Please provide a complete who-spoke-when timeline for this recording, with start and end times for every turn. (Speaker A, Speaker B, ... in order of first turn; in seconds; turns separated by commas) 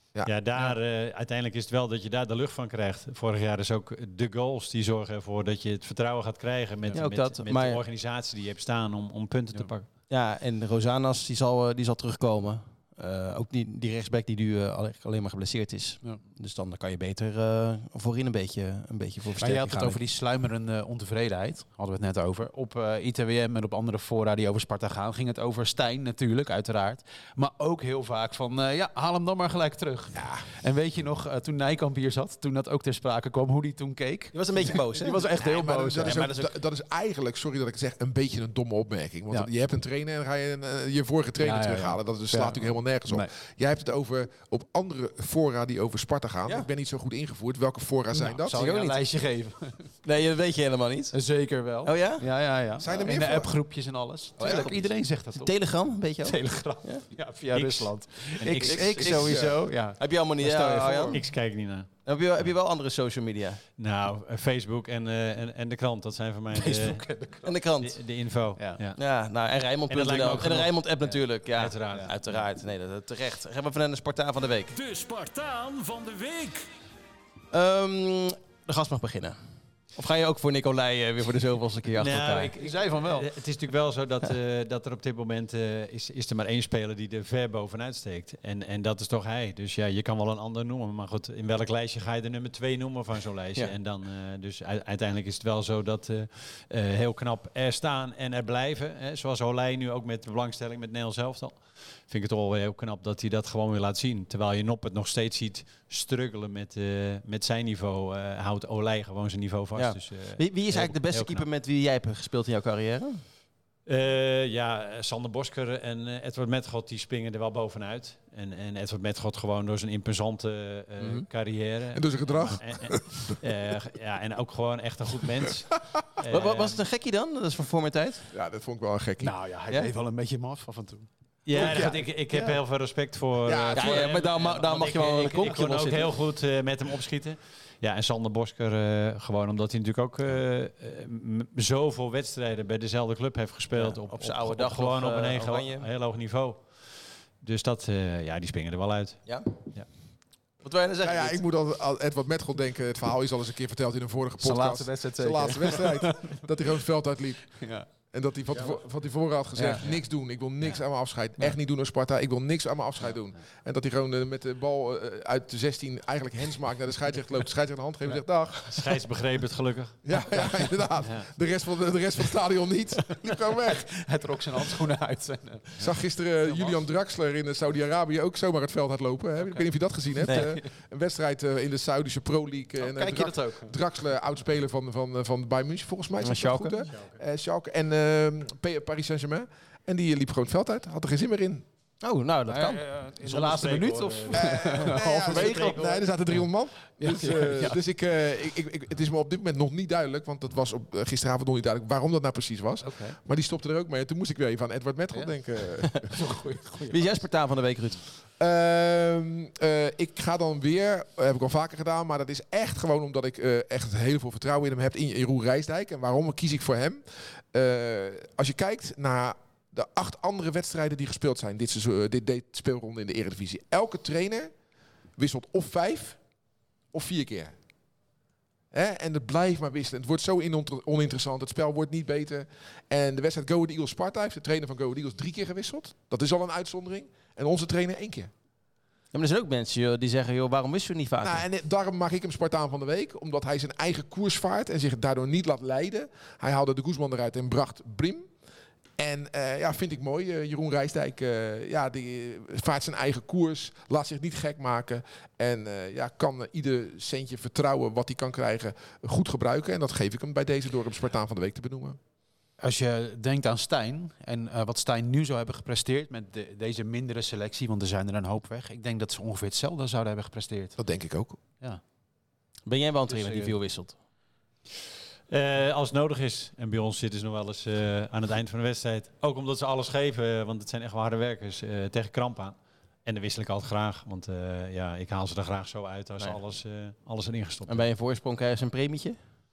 Speaker A: 0.2-9.9, Speaker B: 6.9-7.8, Speaker B: 10.1-20.0, Speaker C: 19.4-36.2, Speaker D: 30.1-30.4, Speaker B: 34.3-36.5, Speaker D: 35.4-48.6, Speaker C: 41.4-43.3, Speaker C: 48.2-50.0, Speaker B: 48.5-49.0, Speaker B: 50.0-51.2, Speaker C: 51.1-55.5, Speaker B: 51.8-52.3, Speaker D: 52.8-53.5, Speaker B: 54.4-57.0, Speaker C: 56.2-61.3, Speaker A: 57.5-58.0, Speaker B: 58.4-61.3, Speaker D: 58.7-59.6, Speaker A: 61.1-62.5, Speaker B: 62.0-63.6, Speaker A: 63.8-67.0, Speaker C: 66.5-67.5, Speaker B: 67.4-68.0, Speaker A: 67.8-69.0, Speaker B: 69.0-74.7, Speaker A: 69.9-70.8, Speaker A: 71.5-72.4, Speaker E: 74.7-76.7, Speaker B: 77.5-79.4, Speaker B: 79.9-82.5, Speaker A: 82.0-111.5, Speaker C: 82.6-83.3, Speaker B: 109.8-113.2, Speaker A: 113.9-126.8, Speaker B: 121.0-121.3, Speaker D: 121.9-123.4, Speaker B: 126.3-128.2, Speaker D: 128.3-129.3, Speaker C: 129.2-132.6, Speaker A: 131.5-149.9, Speaker D: 133.4-134.1, Speaker B: 133.7-136.1, Speaker B: 143.7-145.9, Speaker B: 149.3-149.6, Speaker B: 150.6-151.4, Speaker D: 151.0-169.0, Speaker C: 154.4-156.4, Speaker C: 157.6-157.9, Speaker C: 159.6-159.8, Speaker A: 168.7-170.0, Speaker D: 170.0-173.9, Speaker C: 173.5-175.8, Speaker D: 175.8-191.7, Speaker C: 176.4-176.8, Speaker C: 180.2-180.7, Speaker C: 182.8-183.7, Speaker B: 186.2-186.8, Speaker A: 186.9-187.2, Speaker B: 192.0-192.8, Speaker C: 192.5-195.7, Speaker A: 193.2-196.1, Speaker D: 194.3-206.1, Speaker C: 197.0-197.8, Speaker B: 197.1-197.4, Speaker C: 202.8-203.2, Speaker C: 205.1-205.4, Speaker C: 206.0-207.2, Speaker B: 206.9-208.0, Speaker D: 208.4-224.5, Speaker D: 225.2-226.2, Speaker D: 226.9-227.5, Speaker D: 228.7-238.3, Speaker B: 239.1-241.4, Speaker D: 241.2-248.3, Speaker D: 249.0-262.0, Speaker C: 262.6-270.8, Speaker D: 270.8-271.4, Speaker B: 272.7-273.9, Speaker C: 273.1-273.6, Speaker A: 275.3-287.9, Speaker B: 287.7-289.2